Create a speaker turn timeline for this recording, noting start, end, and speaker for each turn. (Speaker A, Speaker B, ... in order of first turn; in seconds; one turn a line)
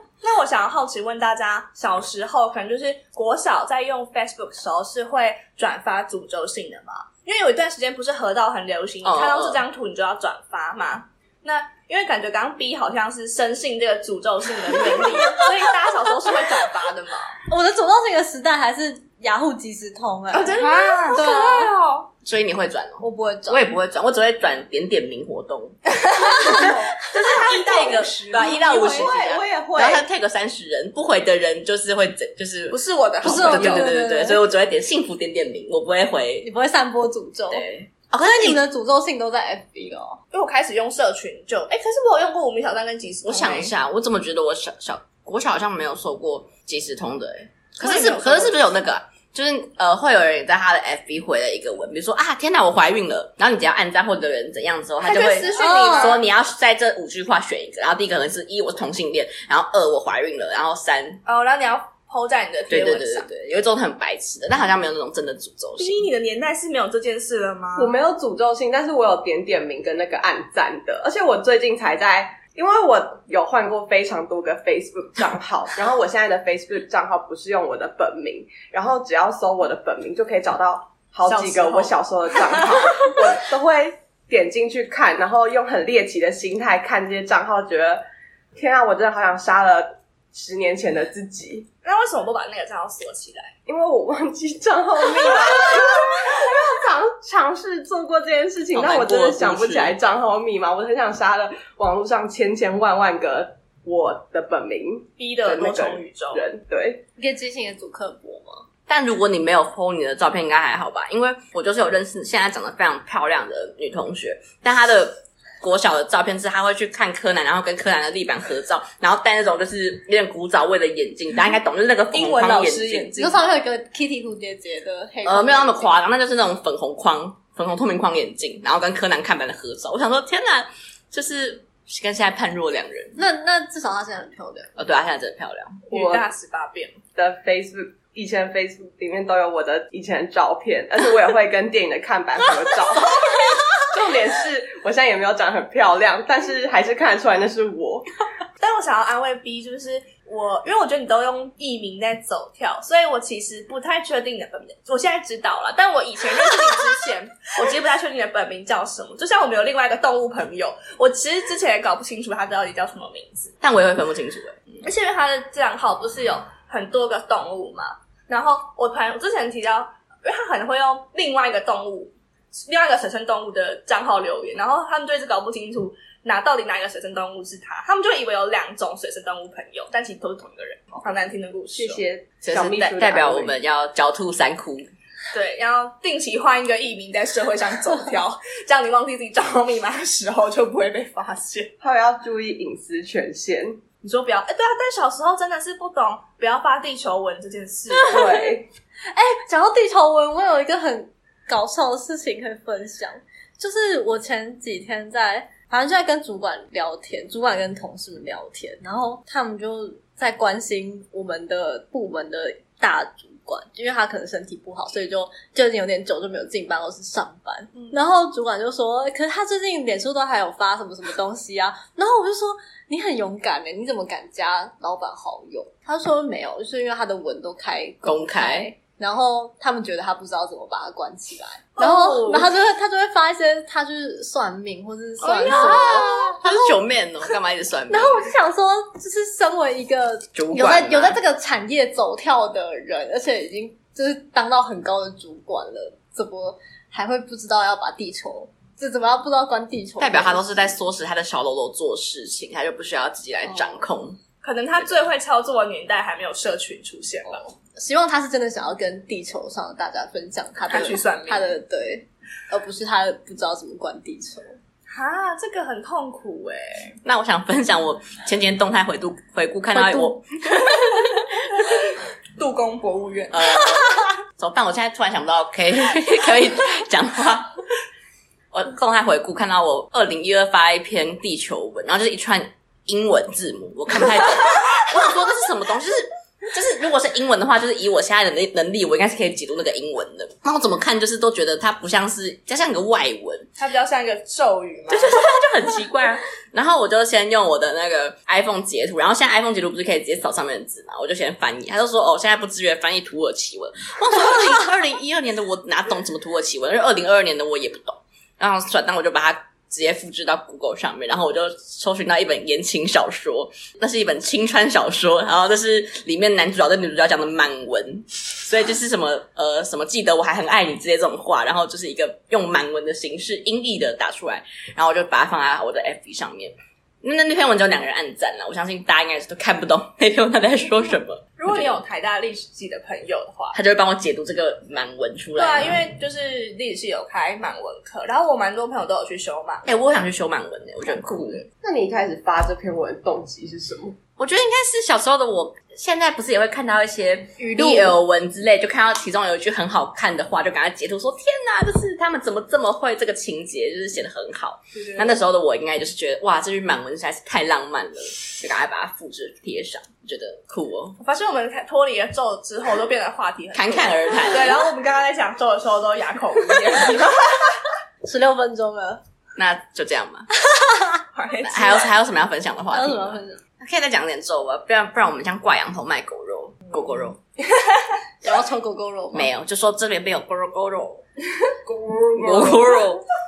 Speaker A: 0.2-17.3
Speaker B: 9.0-9.6
Speaker C: 17.5-21.7
Speaker A: 20.3-22.1
Speaker B: 22.2-36.5
Speaker C: 23.0-23.7
Speaker A: 26.2-28.6
Speaker C: 26.3-26.9
Speaker D: 27.3-30.0
Speaker C: 28.7-29.1
Speaker A: 32.7-33.9
Speaker C: 33.2-34.4
Speaker C: 36.4-37.7
Speaker B: 37.5-38.6
Speaker C: 38.2-40.2
Speaker A: 40.3-43.7
Speaker B: 43.2-61.2
Speaker A: 47.8-48.6
Speaker A: 55.0-56.2
Speaker C: 55.5-56.2
Speaker A: 61.2-63.3
Speaker B: 62.7-66.1
Speaker A: 65.8-67.9
Speaker D: 67.8-88.0
Speaker A: 81.2-83.3
Speaker D: 88.5-91.7
Speaker A: 91.8-93.5
Speaker D: 93.7-107.0
Speaker B: 98.7-100.0
Speaker A: 105.2-106.4
Speaker C: 107.2-108.6
Speaker B: 108.9-123.1
Speaker A: 122.1-123.5
Speaker C: 123.2-126.0
Speaker B: 125.2-133.2
Speaker C: 133.2-134.7
Speaker B: 134.8-135.8
Speaker A: 135.9-137.0
Speaker D: 135.9-136.2
Speaker D: 137.2-143.2
Speaker C: 143.1-143.7
Speaker D: 143.8-148.1
Speaker A: 148.6-163.5
Speaker B: 163.6-164.9
Speaker A: 164.8-182.0
Speaker D: 181.7-183.6
Speaker B: 182.4-184.9
Speaker A: 185.3-191.7
Speaker D: 191.8-193.8
Speaker A: 194.0-198.4
Speaker C: 198.0-198.6
Speaker D: 198.1-198.7
Speaker C: 199.1-236.7
Speaker B: 228.0-228.7
Speaker A: 231.8-232.5
Speaker A: 235.2-236.4
Speaker B: 235.5-238.3
Speaker C: 237.9-250.7
Speaker B: 240.3-241.2
Speaker B: 250.0-254.2
Speaker C: 253.5-253.8
Speaker A: 254.4-257.5
Speaker C: 257.8-264.5
Speaker A: 260.7-261.5
Speaker A: 264.9-267.0
Speaker B: 267.0-271.2
Speaker C: 269.7-270.2
Speaker A: 272.4-273.6
Speaker B: 273.3-277.6
Speaker B: 278.5-293.5
Speaker A: 293.6-295.2
Speaker B: 294.9-331.8
Speaker A: 331.4-333.6
Speaker B: 333.5-335.9
Speaker A: 335.4-339.8
Speaker B: 339.6-341.4
Speaker A: 340.9-341.4
Speaker D: 341.6-344.0
Speaker B: 344.2-361.0
Speaker C: 347.4-347.9
Speaker A: 354.7-355.1
Speaker A: 361.0-367.6
Speaker B: 363.5-364.6
Speaker C: 368.0-369.0
Speaker B: 369.4-370.3
Speaker C: 370.4-371.0
Speaker A: 371.1-372.0
Speaker B: 371.4-377.2
Speaker C: 372.7-373.4
Speaker C: 378.2-379.3
Speaker B: 379.1-381.0
Speaker D: 381.6-382.8
Speaker B: 382.1-383.0